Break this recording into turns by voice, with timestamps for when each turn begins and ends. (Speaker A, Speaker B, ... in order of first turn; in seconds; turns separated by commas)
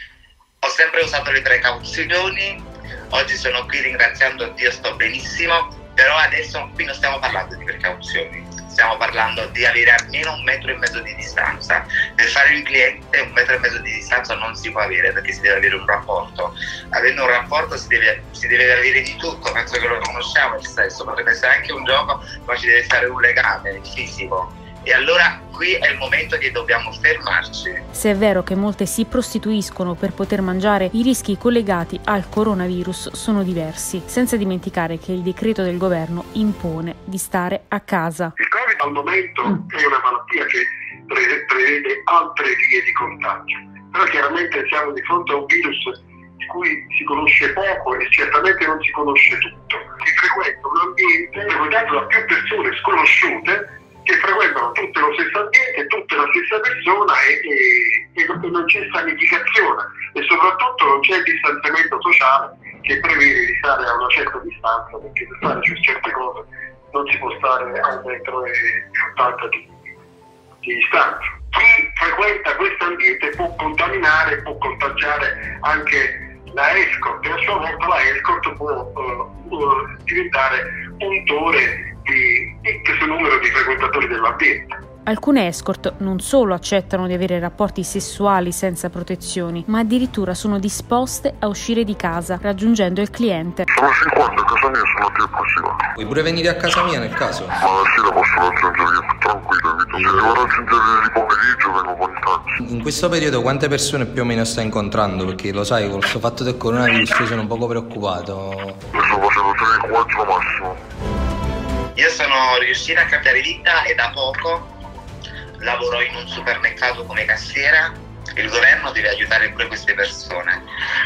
Speaker A: 0.6-27.8, Speaker B: 27.9-38.4, Speaker C: 38.8-69.7, Speaker C: 70.6-84.8, Speaker B: 85.1-93.7, Speaker D: 93.7-95.8, Speaker E: 96.0-97.5, Speaker D: 97.6-102.5, Speaker E: 102.6-108.8, Speaker D: 108.9-110.8, Speaker A: 112.0-114.7, Speaker A: 115.6-120.6